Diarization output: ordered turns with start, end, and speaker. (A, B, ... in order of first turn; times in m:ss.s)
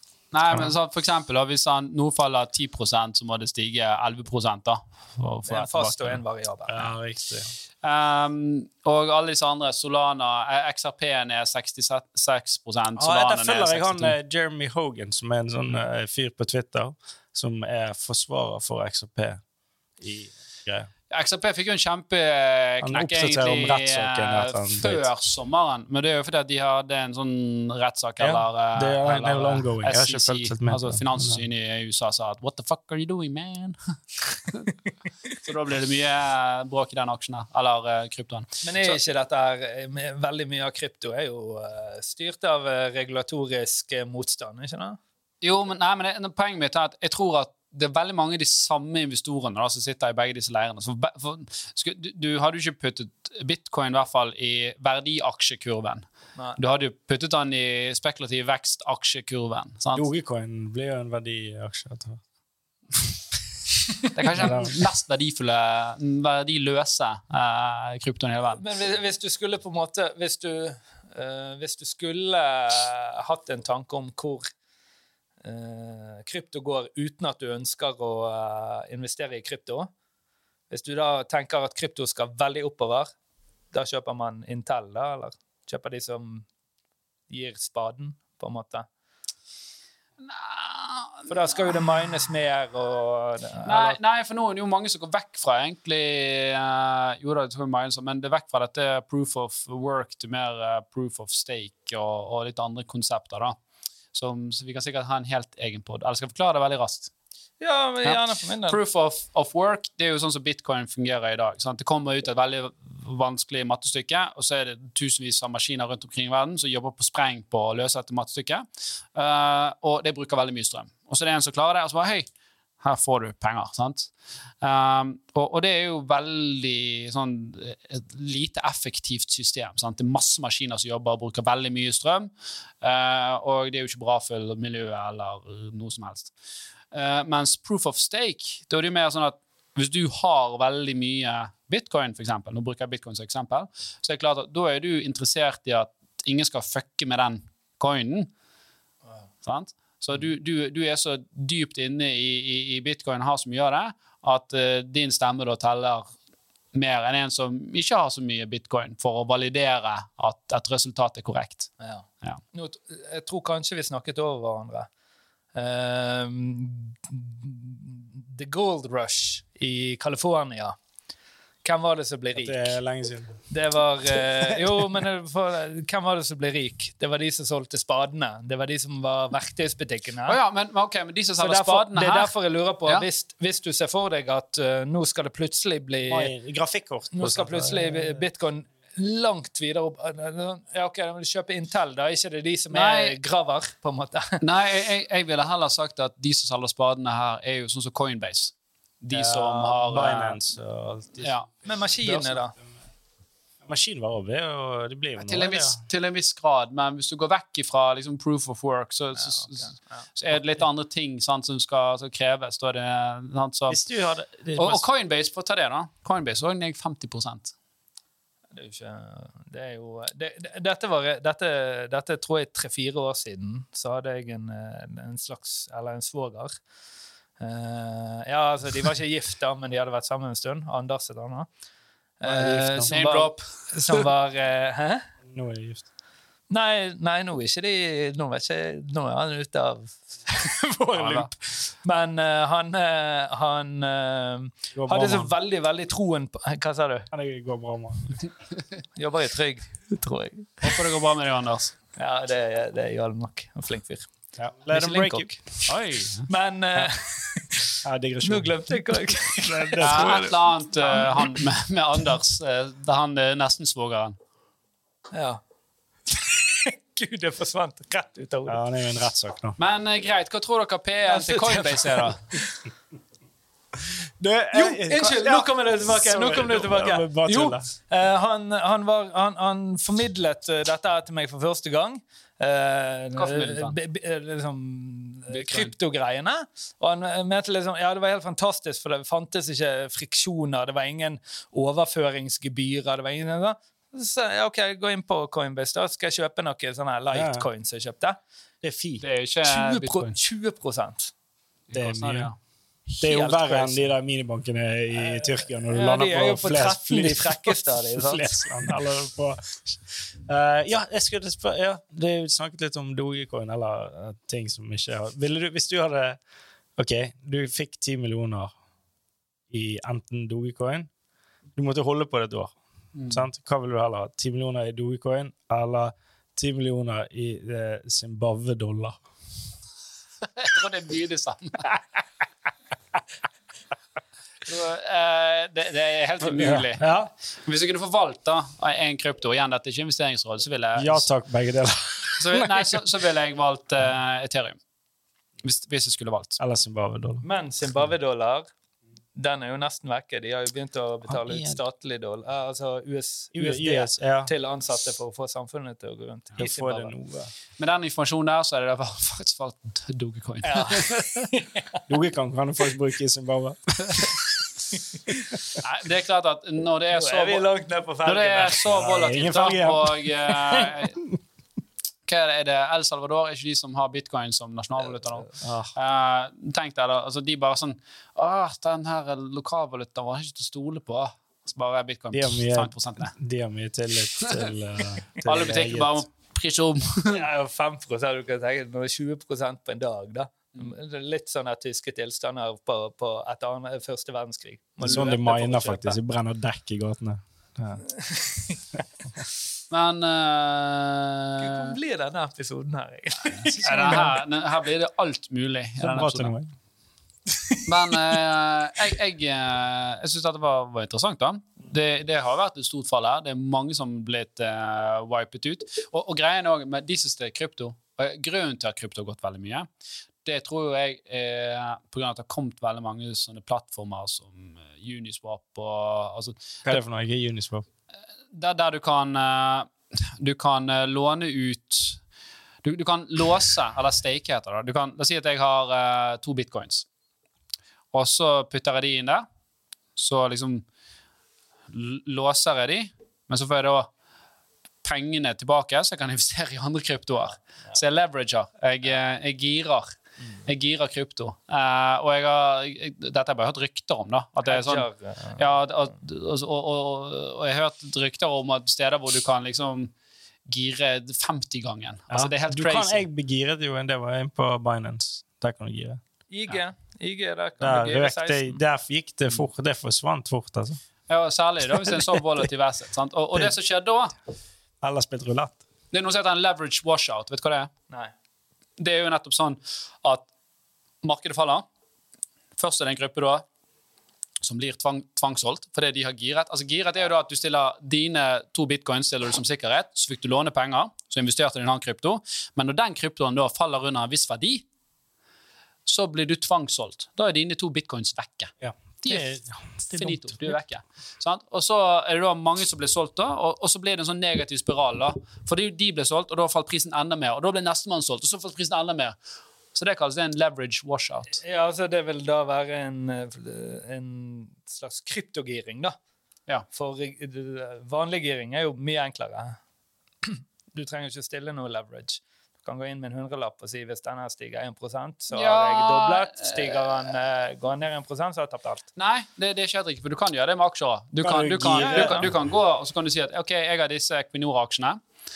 0:00.3-0:06.2 A
0:05.4-0:06.9 B
0:06.7-0:07.5 C
0:07.8-0:14.1 A
0:13.0-0:19.4 C
0:20.0-0:20.9 C
0:21.1-0:34.7 A
0:22.8-0:25.1 C
0:28.2-0:31.4 C
0:35.3-0:39.0 A
0:38.6-0:45.0 B
0:45.4-1:00.0 A
0:59.9-1:02.2 C
1:04.1-1:08.6 A
1:04.3-1:04.8 C
1:08.5-1:14.5 B
1:15.4-1:19.9 B
1:20.7-1:23.1 B
1:23.7-1:26.4 B
1:27.3-1:28.8 B
1:30.2-1:31.3 A
1:31.3-1:34.0 B
1:33.6-1:43.6 A
1:44.1-1:47.1 A
1:47.6-1:48.8 B
1:48.0-2:02.3 A
2:02.8-2:12.3 A
2:12.8-2:16.3 A
2:16.9-2:28.3 A
2:29.4-2:36.1 A
2:36.7-2:42.4 A
2:41.8-2:44.9 B
2:45.5-2:50.7 B
2:51.6-2:52.8 B
2:52.3-2:53.4 C
2:53.5-3:00.4 B
3:00.2-3:02.3 A
3:01.4-3:06.3 B
3:06.1-3:08.2 C
3:07.1-3:14.4 B
3:12.7-3:13.2 A
3:14.4-3:20.4 A
3:19.1-3:21.3 C
3:21.2-3:21.5 A
3:21.6-3:22.5 B
3:23.6-3:25.8 C
3:25.2-3:33.8 A
3:29.1-3:30.0 B
3:33.7-3:34.8 C
3:34.6-3:37.5 A
3:38.5-3:46.5 B
3:47.4-3:51.5 B
3:52.2-3:55.1 B
3:52.2-3:52.9 C
3:52.9-3:54.0 A
3:55.2-3:55.9 C
3:56.5-4:07.1 B
4:01.0-4:01.3 A
4:04.7-4:05.3 C
4:07.1-4:08.2 C
4:09.0-4:10.8 B
4:10.6-4:11.7 A
4:12.0-4:14.1 B
4:14.4-4:15.6 C
4:14.7-4:15.2 B
4:15.6-4:16.2 A
4:16.3-4:21.4 B
4:17.8-4:18.8 C
4:19.4-4:20.3 C
4:19.8-4:24.2 A
4:25.1-4:25.4 B
4:26.1-4:28.6 B
4:28.5-4:29.6 C
4:29.6-4:32.2 A
4:31.1-4:32.6 B
4:34.2-4:37.7 C
4:34.5-4:58.2 B
4:43.2-4:43.8 A
4:45.3-4:45.7 A
4:57.1-4:57.4 C
4:58.6-4:59.0 C
4:59.0-5:00.1 A
4:59.4-5:01.1 B
5:01.7-5:02.3 A
5:01.7-5:02.3 C
5:02.9-5:03.8 B
5:03.0-5:16.2 C
5:05.0-5:08.7 B
5:16.8-5:18.5 C
5:19.5-5:20.9 C
5:21.6-5:29.0 C
5:22.9-5:23.2 A
5:30.4-5:31.7 A
5:34.4-5:36.8 A
5:36.2-5:37.1 C
5:37.4-5:41.1 A
5:40.8-5:42.8 C
5:42.2-5:44.6 A
5:45.4-5:46.4 A
5:46.4-5:47.2 C
5:47.2-5:48.5 B
5:49.2-5:56.9 B
5:51.1-5:51.6 C
5:53.3-5:54.3 C
5:56.4-5:57.3 C
5:57.6-6:01.3 A
6:00.4-6:01.8 B
6:01.9-6:04.2 C
6:05.1-6:05.6 B
6:05.6-6:07.5 A
6:06.9-6:08.7 B
6:08.0-6:11.0 A
6:08.6-6:11.2 C
6:12.1-6:23.1 A
6:15.4-6:15.7 C
6:22.1-6:26.0 C
6:24.2-6:24.5 A
6:25.2-6:27.2 A
6:27.1-6:36.0 B
6:34.8-6:37.9 C
6:38.1-6:38.4 B
6:39.7-6:41.7 A
6:41.4-6:44.2 B
6:43.5-6:46.3 A
6:45.8-6:46.5 C
6:47.6-6:59.7 A
7:00.2-7:06.8 A
7:06.6-7:07.6 C
7:08.3-7:12.0 A
7:12.6-7:16.8 A
7:17.9-7:19.2 A
7:20.0-7:20.6 A
7:21.7-7:23.9 A
7:24.8-7:39.9 A
7:34.4-7:35.4 B
7:40.5-7:43.0 A
7:42.1-7:46.0 C
7:46.3-7:48.6 B
7:47.6-7:50.8 C
7:51.1-7:54.1 A
7:54.8-7:55.6 C
7:55.9-7:57.7 A
7:58.8-8:00.2 A
8:01.0-8:01.6 A
8:02.6-8:03.4 A
8:04.4-8:14.6 A
8:15.8-8:19.3 A
8:18.6-8:20.6 C
8:19.9-8:29.2 A
8:29.7-8:31.4 A
8:31.3-8:35.9 B
8:36.7-8:39.6 B
8:40.2-8:48.8 B
8:45.3-8:47.0 A
8:49.0-8:55.0 A
8:51.2-8:52.3 C
8:51.6-8:52.2 B